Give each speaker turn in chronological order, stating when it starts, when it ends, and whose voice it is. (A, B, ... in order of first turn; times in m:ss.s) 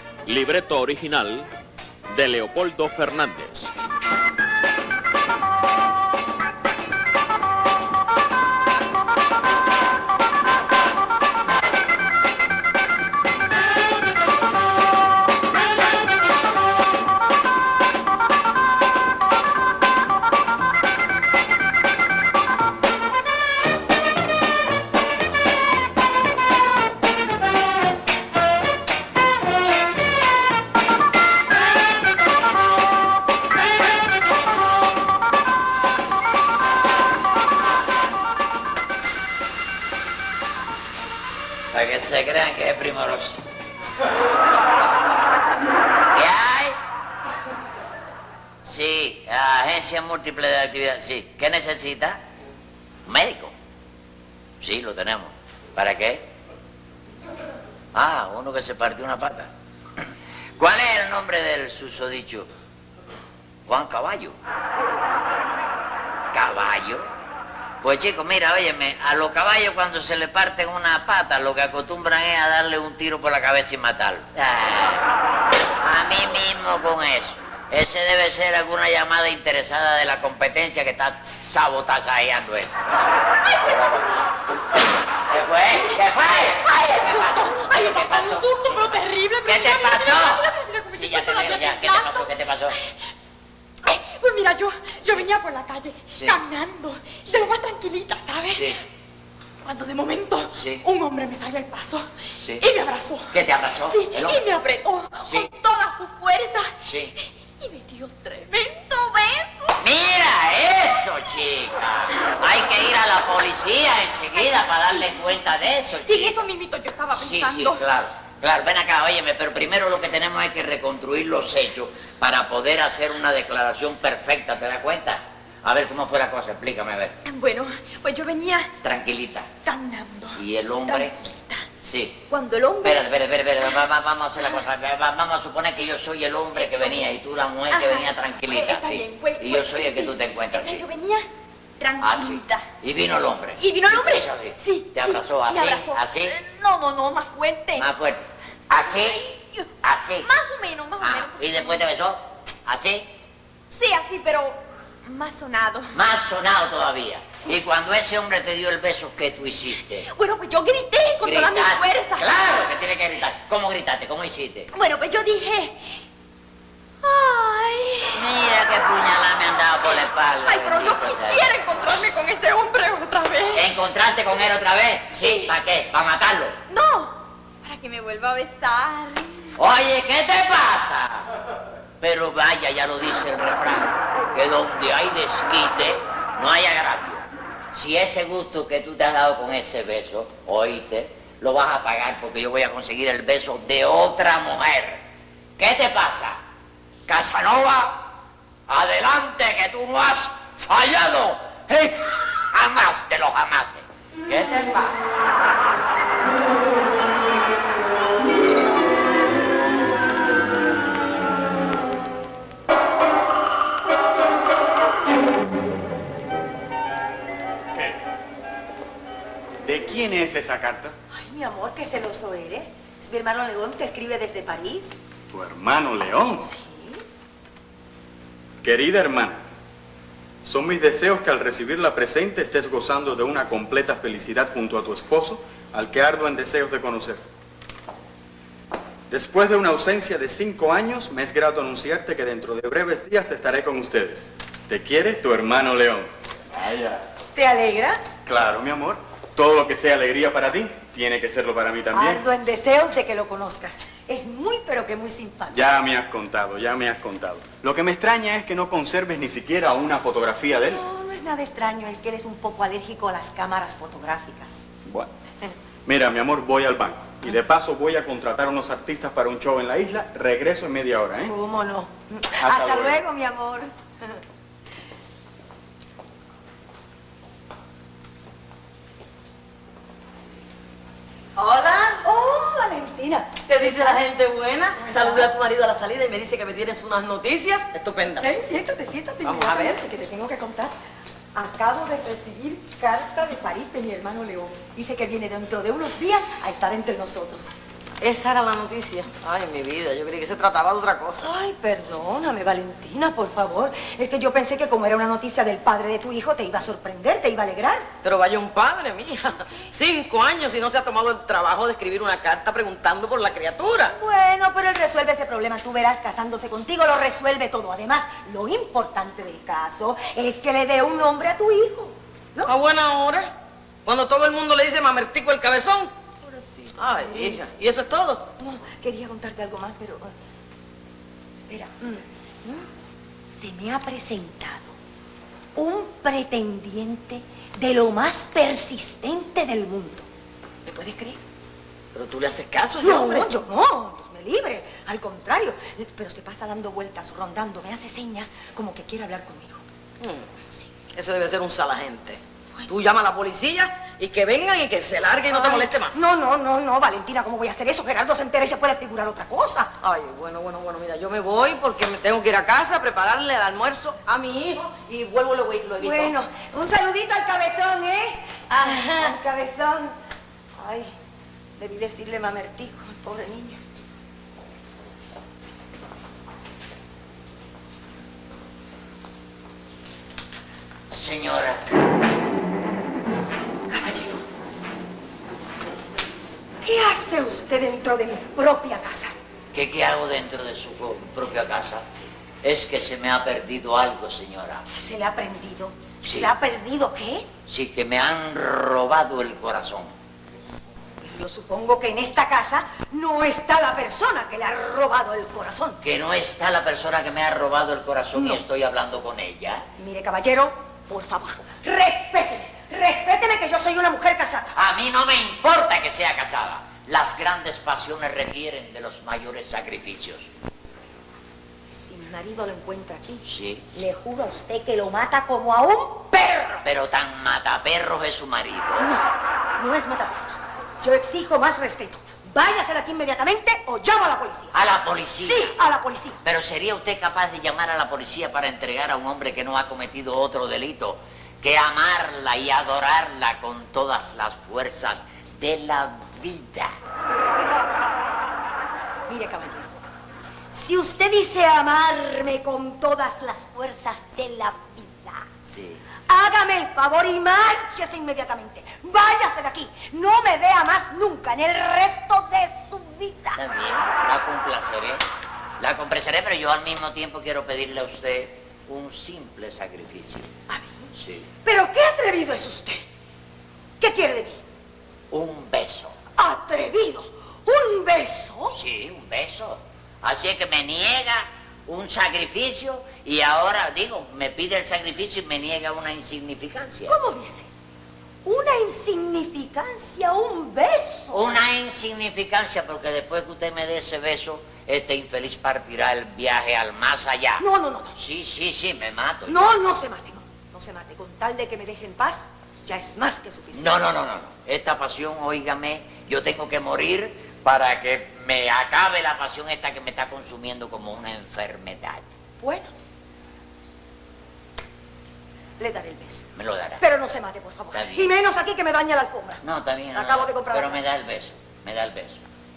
0:00.2-0:01.5 A
0:02.1-0:03.7 A
0:41.7-0:43.4 B
0:46.1-0:46.8 B
0:48.6-0:52.2 B
0:53.1-0:53.5 B
0:54.6-0:56.3 B
0:57.9-0:59.5 B
1:00.6-1:02.5 B
1:03.7-1:04.4 B
1:06.3-1:07.1 B
1:07.8-1:15.0 B
1:15.8-1:22.8 B
1:23.6-1:24.2 B
1:25.3-1:32.8 B
1:25.8-1:32.3 C
1:33.9-1:38.6 C
1:36.1-1:36.4 B
1:38.4-1:38.8 B
1:39.6-1:42.0 C
1:40.5-1:40.9 B
1:41.3-1:41.9 D
1:42.4-1:42.7 B
1:42.6-1:43.2 C
1:43.3-1:44.5 B
1:43.9-1:46.7 C
1:45.3-1:45.6 B
1:46.8-1:47.2 B
1:47.6-1:49.8 C
1:49.8-1:56.4 B
1:56.0-1:57.8 C
1:57.2-2:07.2 B
2:07.2-2:08.7 C
2:08.8-2:09.5 B
2:09.6-2:11.7 C
2:10.4-2:11.3 B
2:11.8-2:12.2 B
2:12.3-2:13.0 C
2:12.8-2:20.9 B
2:17.7-2:21.3 C
2:21.8-2:22.6 C
2:22.0-2:26.4 B
2:23.6-2:27.9 C
2:27.8-2:29.2 B
2:28.8-2:29.6 C
2:29.8-2:30.3 B
2:30.2-2:31.8 C
2:31.0-2:33.1 B
2:33.7-2:36.0 C
2:35.9-2:40.1 B
2:40.0-2:42.3 C
2:41.2-2:44.7 B
2:44.7-2:46.0 C
2:47.0-2:48.2 C
2:48.1-2:51.5 B
2:49.9-2:53.7 C
2:53.5-2:56.6 B
2:55.2-2:55.5 C
2:56.7-2:59.6 C
2:59.6-3:01.3 B
3:02.0-3:15.0 B
3:15.6-3:16.4 B
3:17.1-3:18.1 B
3:18.7-3:25.0 B
3:39.6-3:40.9 E
3:41.1-3:45.0 D
3:45.3-3:46.5 E
3:46.4-3:47.0 D
3:48.6-3:49.4 E
3:50.4-3:57.2 E
3:59.1-4:07.0 E
4:07.3-4:08.1 D
4:08.2-4:12.2 E
4:11.9-4:15.7 D
4:15.5-4:20.8 E
4:20.6-4:24.6 D
4:24.8-4:25.1 E
4:25.9-4:31.3 E
4:31.2-4:34.2 D
4:32.4-4:33.0 E
4:41.4-4:41.9 F
4:41.9-4:44.0 D
4:43.5-4:48.3 F
4:44.8-4:45.3 D
4:48.2-4:50.7 D
4:49.2-4:49.8 F
4:51.4-4:57.5 D
4:58.0-5:01.3 F
5:01.2-5:07.8 D
5:08.0-5:14.0 F
5:13.9-5:22.5 D
5:22.4-5:23.3 F
5:23.8-5:25.9 F
5:26.2-5:27.4 D
5:26.8-5:28.3 F
5:28.4-5:30.1 D
5:31.5-5:32.6 D
5:33.4-5:34.8 D
5:35.6-5:40.1 D
5:40.7-5:41.2 D
5:41.9-5:43.3 F
5:42.8-5:49.6 D
5:50.0-5:50.3 F
5:50.9-5:56.0 F
5:55.3-5:59.7 D
5:59.8-6:06.2 F
6:05.8-6:10.0 D
6:08.5-6:09.2 F
6:10.6-6:10.9 D
6:11.6-6:13.6 D
6:20.9-6:21.7 B
6:23.7-6:24.2 D
6:26.6-6:29.1 D
6:29.5-6:31.8 B
6:32.4-6:34.7 B
6:34.7-6:37.3 D
6:36.0-6:36.3 B
6:37.5-6:39.9 B
6:41.0-6:45.8 D
6:45.8-6:49.6 B
6:48.1-6:48.4 D
6:49.8-6:54.5 D
6:54.5-7:00.3 B
7:01.7-7:06.7 D
7:03.3-7:03.7 B
7:06.6-7:08.9 B
7:08.8-7:09.1 D
7:09.6-7:14.6 D
7:14.5-7:15.6 B
7:15.2-7:16.2 D
7:16.2-7:26.7 B
7:29.1-7:29.8 D
7:30.5-7:35.3 D
7:35.5-7:35.8 B
7:36.1-7:43.4 D
7:43.4-7:45.0 B
7:45.6-7:50.3 B
7:50.5-7:50.9 D
7:51.0-7:51.3 B
7:51.4-7:52.8 D
7:53.8-7:54.4 D
7:55.1-7:56.0 B
7:56.2-7:58.6 D
7:58.5-8:07.0 B
8:06.9-8:07.5 D
8:08.2-8:11.4 D
8:11.1-8:19.5 B
8:17.4-8:18.0 D
8:19.3-8:24.0 D
8:23.5-8:32.0 B
8:32.4-8:32.7 D
8:35.6-8:36.3 D
8:36.4-8:36.8 B
8:36.8-8:39.4 D
8:37.7-8:38.1 B
8:39.4-8:42.2 B
8:39.9-8:40.8 D